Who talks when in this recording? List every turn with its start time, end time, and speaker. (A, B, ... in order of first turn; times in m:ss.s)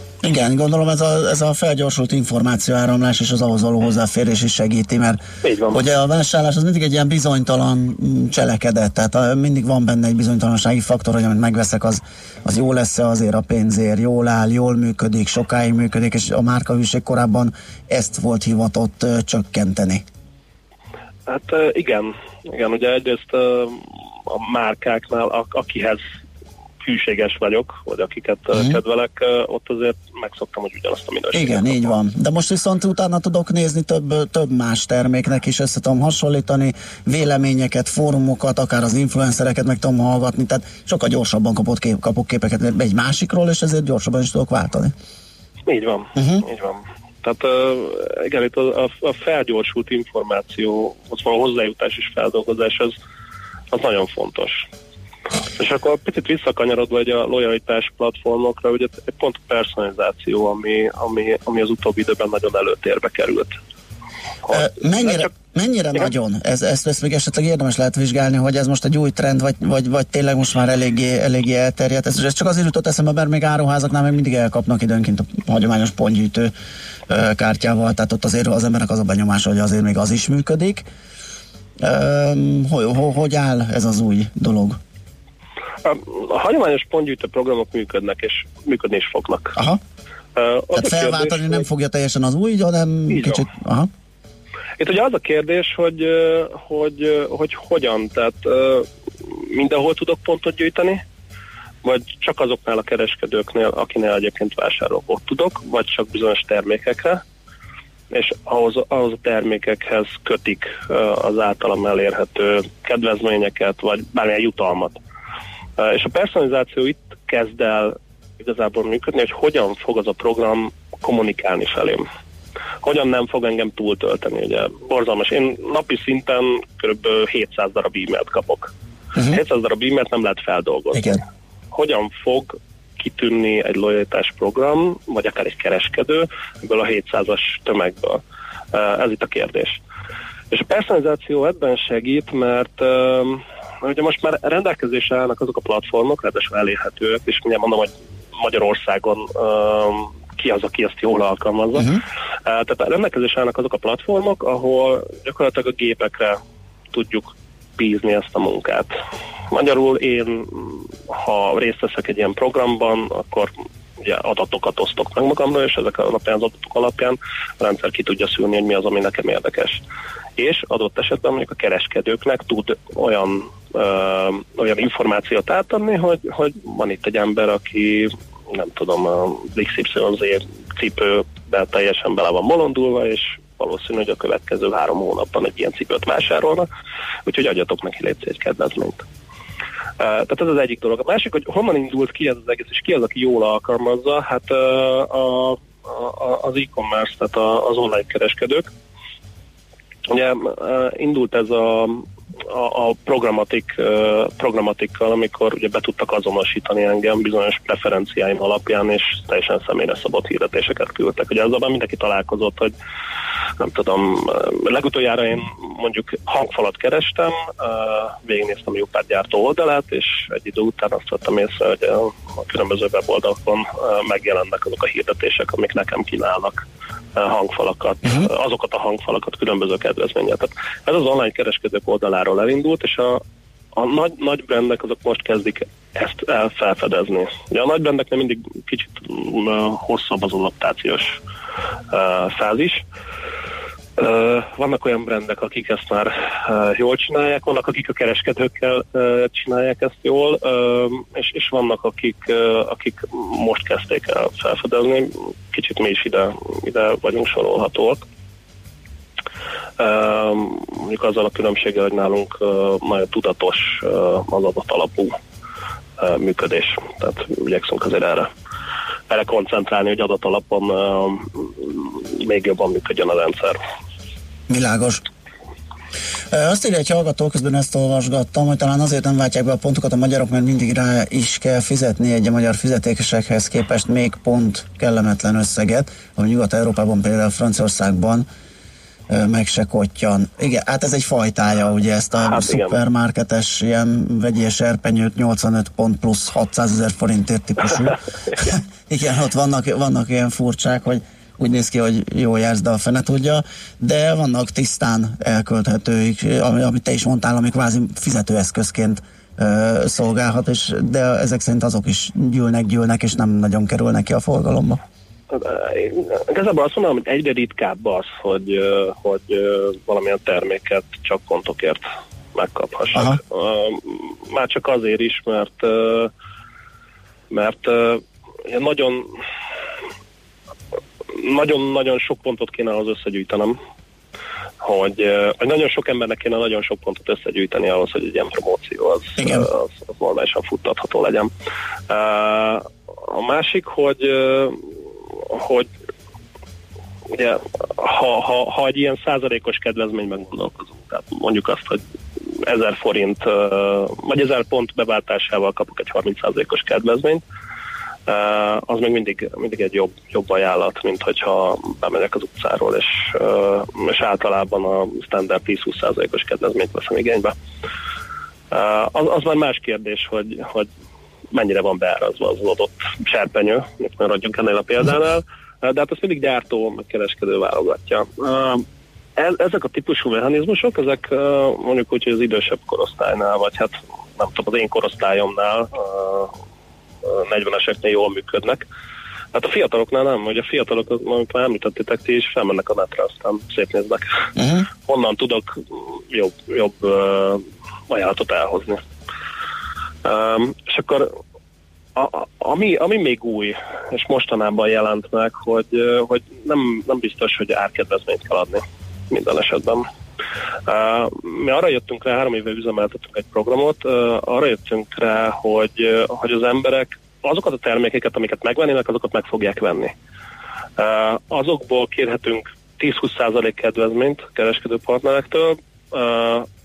0:00.2-0:20.0 A
0:05.4-0:05.8 B
0:21.3-0:26.0 B
0:26.8-0:32.0 B
0:31.3-0:44.9 A
0:45.7-0:53.0 B
0:46.2-0:46.4 A
0:53.7-0:54.7 B
0:55.6-1:03.6 B
1:04.4-1:05.3 B
1:04.5-1:16.5 A
1:17.1-1:20.9 A
1:21.8-1:24.8 A
1:25.8-1:29.6 B
1:30.4-1:31.7 B
1:30.8-1:33.9 A
1:33.1-1:33.4 B
1:34.8-1:41.0 B
1:41.8-1:47.2 B
1:48.1-1:55.0 B
1:55.8-2:02.1 B
2:02.8-2:18.2 B
2:10.9-2:11.2 A
2:18.7-2:19.8 B
2:20.5-2:32.0 B
2:32.5-2:36.4 B
2:36.9-2:38.9 B
2:39.5-2:49.8 B
2:50.4-3:06.7 B
3:07.3-3:09.0 B
3:10.0-3:18.7 B
3:20.1-3:32.7 B
3:33.6-3:46.6 B
3:47.2-3:53.2 B
3:53.8-4:01.2 B
4:01.9-4:02.8 B
4:04.0-4:18.0 B
4:19.8-4:25.2 B
4:26.0-4:28.3 B
4:29.1-4:33.6 B
4:34.5-4:35.0 A
4:36.3-4:48.3 A
4:49.1-5:14.8 A
4:52.3-4:52.8 B
5:15.3-5:26.1 B
5:27.3-5:29.1 B
5:31.1-5:33.6 B
5:34.6-5:41.3 B
5:39.2-5:39.5 A
5:41.9-5:44.6 B
5:45.2-5:45.7 B
5:47.1-5:51.8 B
5:52.4-5:57.2 B
5:58.1-6:07.4 B
6:08.5-6:10.7 B
6:11.3-6:18.6 B
6:19.2-6:26.3 B
6:27.1-6:28.6 B
6:29.3-6:34.2 B
6:34.4-6:34.7 A
6:34.9-6:35.6 B
6:36.1-6:38.8 B
6:40.0-6:41.1 B
6:42.0-6:49.9 B
6:50.7-6:59.9 B
7:00.8-7:06.5 B